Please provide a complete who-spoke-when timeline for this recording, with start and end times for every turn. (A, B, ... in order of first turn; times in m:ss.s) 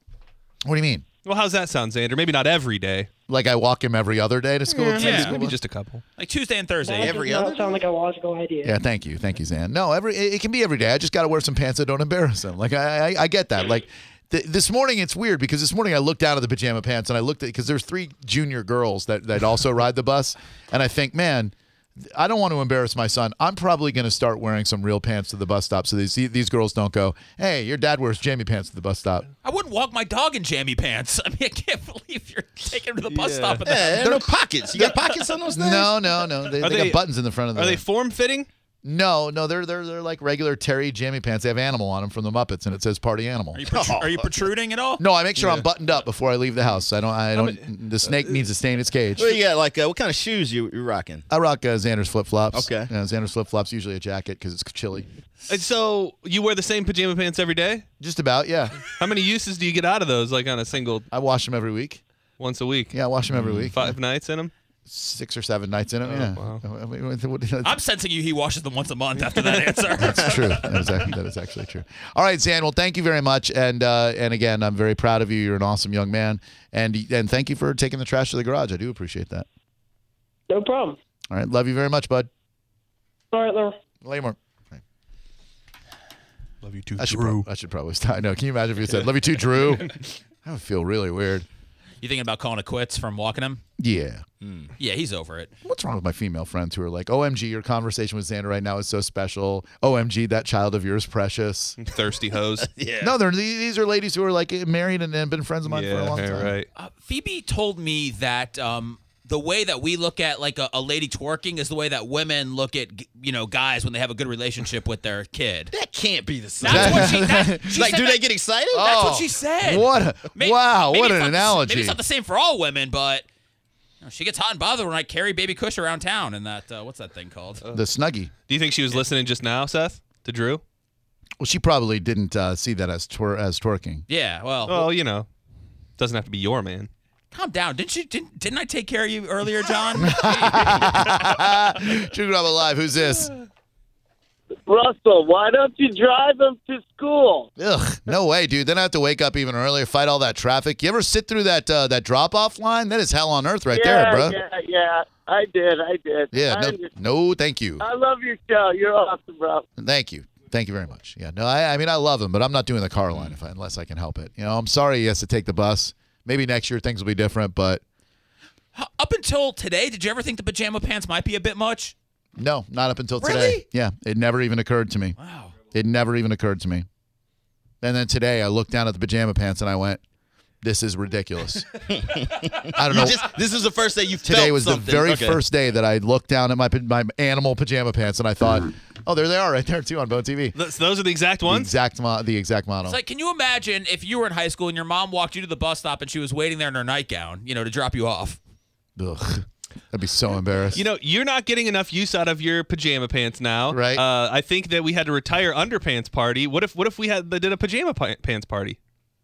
0:00.6-0:01.0 A
0:01.2-0:03.1 B
0:03.3-0:05.6 A
0:04.7-0:06.0 B
0:05.0-0:05.4 C
0:06.2-0:07.2 C
0:06.8-0:08.8 D
0:07.0-0:07.9 E
0:08.6-0:21.5 A
0:22.1-0:29.3 A
0:29.4-0:34.9 C
0:33.1-0:33.7 B
0:33.7-0:35.9 E
0:35.6-0:37.8 A
0:36.6-0:38.5 B
0:38.8-0:43.6 A
0:43.6-0:45.0 C
0:43.7-0:44.2 E
0:45.0-0:49.3 A
0:45.4-0:45.7 B
0:47.4-0:47.7 B
0:49.2-0:51.2 E
0:51.3-0:55.1 A
0:52.5-0:52.9 E
0:55.5-0:57.8 B
0:58.0-0:58.8 A
0:58.9-1:01.1 B
1:01.1-1:02.0 A
1:02.4-1:04.5 B
1:02.9-1:03.9 A
1:04.9-1:07.8 A
1:06.0-1:06.6 B
1:07.6-1:10.9 C
1:09.2-1:09.7 B
1:10.0-1:19.5 A
1:20.5-1:21.0 D
1:21.3-1:22.3 A
1:23.3-1:23.8 D
1:24.0-1:24.8 A
1:26.6-1:27.4 B
1:27.0-1:31.5 A
1:32.0-1:33.6 C
1:33.8-1:34.2 A
1:34.4-1:34.7 E
1:34.8-1:35.5 C
1:35.6-1:41.8 A
1:41.8-1:42.7 B
1:42.6-1:43.2 E
1:43.0-1:46.5 A
1:45.7-1:46.7 B
1:46.8-1:55.7 C
1:55.7-1:57.2 E
1:56.6-1:58.2 C
1:56.7-1:57.8 A
1:57.8-1:58.9 E
1:58.7-2:02.0 A
1:58.7-2:03.2 C
2:04.0-2:07.6 C
2:07.7-2:08.3 A
2:08.5-2:10.6 B
2:11.4-2:14.0 A
2:14.1-2:14.9 C
2:14.7-2:15.3 B
2:16.0-2:16.9 B
2:17.3-2:21.4 C
2:20.0-2:23.3 A
2:24.7-2:27.5 F
2:27.6-2:34.4 A
2:33.7-2:36.9 F
2:36.3-2:37.8 A
2:37.8-2:39.6 F
2:39.8-2:47.8 A
2:48.8-2:51.9 C
2:52.4-2:55.2 A
2:53.2-2:53.6 C
2:55.2-2:55.5 C
2:55.7-2:56.9 A
2:57.8-3:00.0 A
3:00.6-3:01.7 A
3:02.0-3:05.4 E
3:02.8-3:03.2 A
3:04.3-3:10.6 A
3:10.6-3:11.7 B
3:11.4-3:13.0 A
3:12.8-3:18.4 C
3:19.0-3:20.8 A
3:20.7-3:28.8 B
3:23.7-3:24.0 A